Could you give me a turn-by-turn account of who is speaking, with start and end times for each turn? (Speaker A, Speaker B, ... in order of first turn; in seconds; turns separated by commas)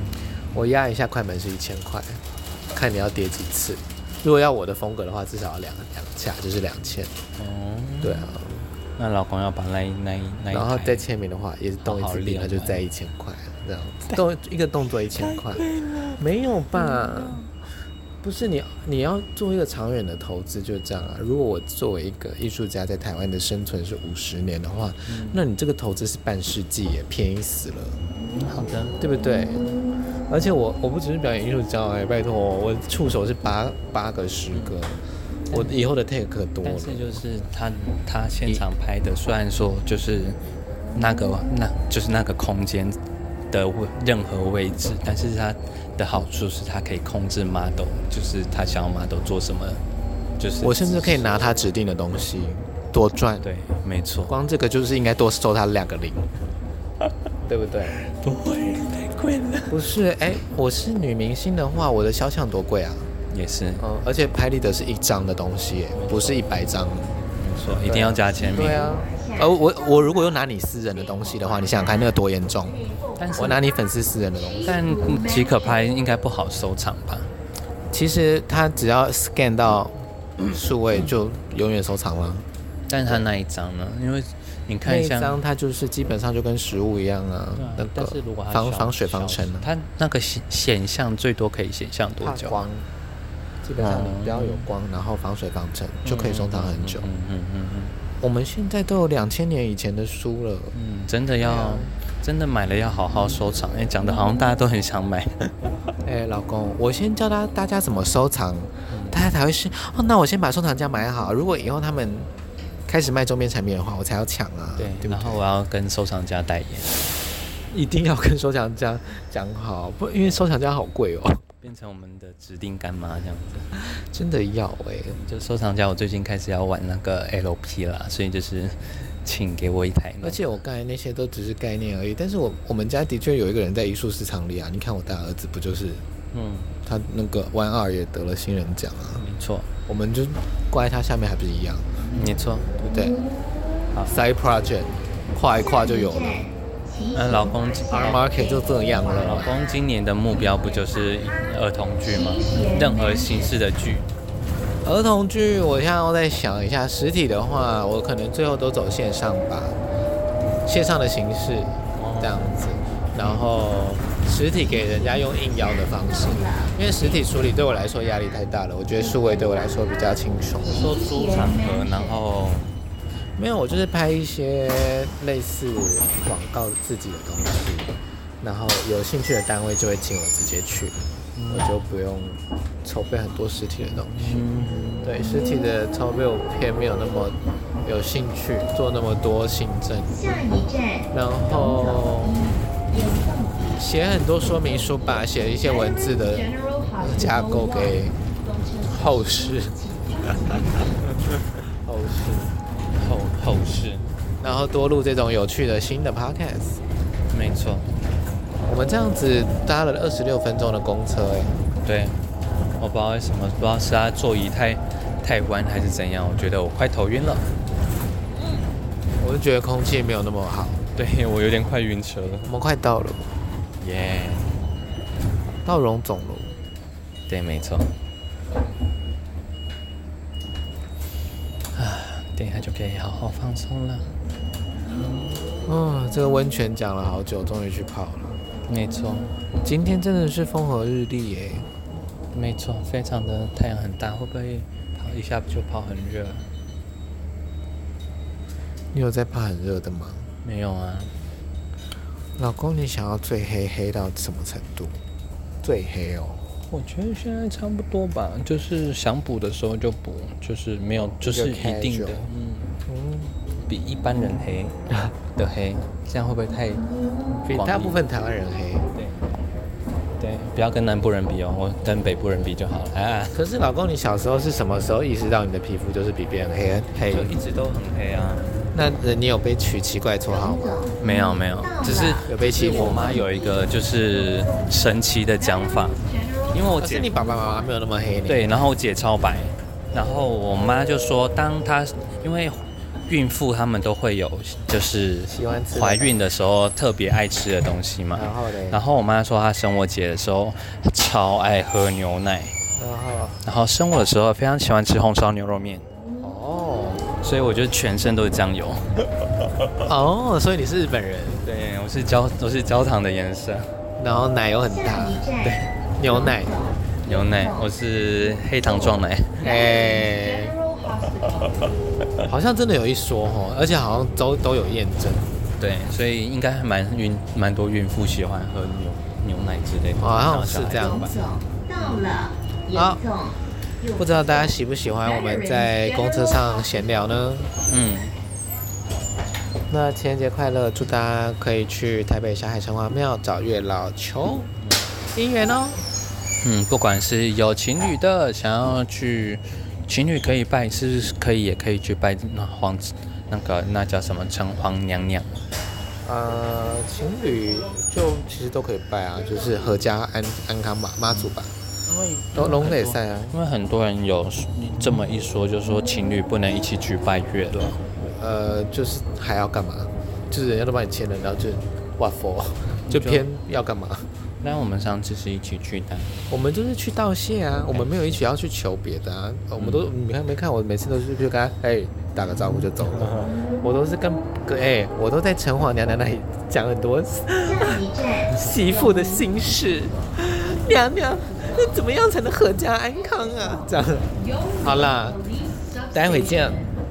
Speaker A: 0.5-2.2, Speaker A: 2.7-7.2, Speaker B: 7.4-8.3, Speaker A: 8.0-8.7, Speaker B: 9.0-11.1, Speaker A: 10.5-17.5, Speaker B: 11.8-12.8, Speaker A: 18.2-28.0, Speaker B: 25.1-25.4, Speaker B: 28.4-29.0, Speaker A: 29.0-29.6, Speaker A: 30.3-37.2, Speaker B: 36.6-40.4, Speaker B: 40.9-43.0, Speaker B: 43.5-49.8, Speaker B: 50.4-51.3, Speaker A: 50.6-53.5, Speaker B: 53.4-54.3, Speaker A: 54.3-56.3, Speaker A: 57.5-58.0, Speaker B: 58.0-59.7, Speaker A: 59.7-63.1, Speaker B: 63.3-63.8, Speaker A: 63.8-67.2, Speaker B: 65.9-66.6, Speaker B: 67.4-68.9, Speaker A: 67.8-72.8, Speaker C: 68.3-69.6, Speaker C: 71.1-73.7, Speaker B: 73.2-73.6, Speaker A: 73.4-74.8, Speaker C: 74.3-75.9, Speaker B: 74.6-77.3, Speaker A: 77.9-82.5, Speaker B: 82.9-85.4, Speaker A: 84.8-89.7, Speaker B: 87.5-92.6, Speaker A: 92.2-92.9, Speaker A: 93.6-97.1, Speaker B: 93.8-94.7, Speaker B: 96.0-98.0, Speaker A: 98.2-100.8, Speaker B: 100.7-105.7, Speaker A: 101.4-101.9, Speaker A: 106.0-112.3, Speaker B: 108.9-109.2, Speaker A: 112.9-115.5, Speaker B: 114.8-117.0, Speaker A: 117.7-121.4, Speaker B: 121.6-123.7, Speaker A: 123.7-125.2, Speaker B: 125.1-130.5, Speaker A: 130.2-136.1, Speaker B: 136.3-136.8, Speaker A: 136.9-139.2, Speaker B: 139.2-139.7, Speaker A: 139.9-141.9, Speaker B: 142.1-142.7, Speaker A: 142.8-143.2, Speaker A: 144.1-146.5, Speaker C: 145.7-149.5, Speaker B: 147.1-148.3, Speaker A: 147.9-149.6, Speaker B: 149.1-154.1, Speaker C: 152.1-153.5, Speaker A: 154.8-159.8, Speaker A: 160.7-170.8, Speaker B: 161.9-162.5, Speaker C: 164.5-166.8, Speaker B: 170.6-172.7, Speaker C: 170.7-172.2, Speaker A: 173.4-181.0, Speaker B: 181.4-181.7, Speaker A: 181.5-184.4, Speaker B: 184.1-185.2, Speaker A: 185.0-190.4, Speaker C: 190.1-193.9, Speaker A: 191.1-192.4, Speaker A: 193.8-198.2, Speaker C: 195.6-201.0, Speaker A: 198.9-199.8, Speaker A: 201.8-202.5, Speaker B: 203.0-204.1, Speaker A: 204.4-206.8, Speaker B: 207.3-207.9, Speaker A: 208.7-211.6, Speaker B: 211.8-212.2, Speaker B: 212.8-217.5, Speaker A: 219.2-220.8, Speaker B: 220.9-222.5, Speaker A: 222.5-223.3, Speaker B: 223.8-224.6, Speaker A: 225.7-226.5, Speaker B: 227.3-227.9, Speaker B: 231.8-234.1, Speaker A: 235.7-238.4, Speaker B: 238.7-239.4, Speaker A: 239.6-241.7, Speaker B: 242.3-246.5, Speaker A: 248.9-250.3, Speaker B: 250.4-251.1, Speaker A: 252.4-255.0, Speaker A: 255.6-256.4, Speaker B: 256.7-262.8, Speaker A: 261.0-262.3, Speaker A: 262.9-263.4, Speaker B: 263.6-264.8, Speaker B: 265.4-266.9, Speaker B: 267.4-268.0, Speaker A: 267.4-268.9, Speaker B: 268.9-269.4, Speaker B: 270.2-273.4, Speaker A: 273.3-277.3, Speaker B: 277.1-278.6, Speaker A: 278.7-280.9, Speaker C: 280.3-287.7, Speaker B: 281.0-287.1, Speaker A: 282.3-283.2, Speaker A: 286.8-288.5, Speaker B: 288.3-302.6, Speaker A: 295.3-296.2, Speaker A: 298.1-298.9, Speaker A: 302.8-303.4, Speaker B: 303.4-305.9, Speaker A: 306.2-307.1, Speaker B: 307.2-308.9, Speaker A: 309.8-311.4, Speaker B: 311.4-313.8, Speaker A: 314.0-315.3, Speaker C: 314.7-317.7, Speaker B: 315.4-315.7, Speaker A: 316.0-316.6, Speaker B: 317.0-319.5, Speaker C: 318.6-321.8, Speaker A: 319.4-320.6, Speaker A: 322.3-325.3, Speaker B: 325.6-331.1, Speaker A: 330.0-331.3, Speaker C: 330.7-337.1, Speaker B: 331.8-332.1, Speaker A: 332.7-333.0, Speaker A: 334.0-337.5, Speaker B: 337.7-338.1, Speaker A: 339.7-344.5, Speaker A: 345.1-345.8, Speaker B: 346.4-355.4, Speaker A: 356.0-361.5, Speaker B: 361.9-367.8, Speaker A: 362.3-363.4, Speaker A: 368.0-374.1, Speaker B: 372.9-373.3, Speaker B: 374.4-376.1, Speaker A: 376.3-394.1, Speaker B: 377.7-378.2, Speaker B: 379.6-379.9, Speaker B: 383.1-383.3, Speaker C: 387.5-390.1, Speaker C: 391.2-391.7, Speaker C: 394.1-396.7, Speaker A: 394.6-395.2, Speaker A: 395.9-396.6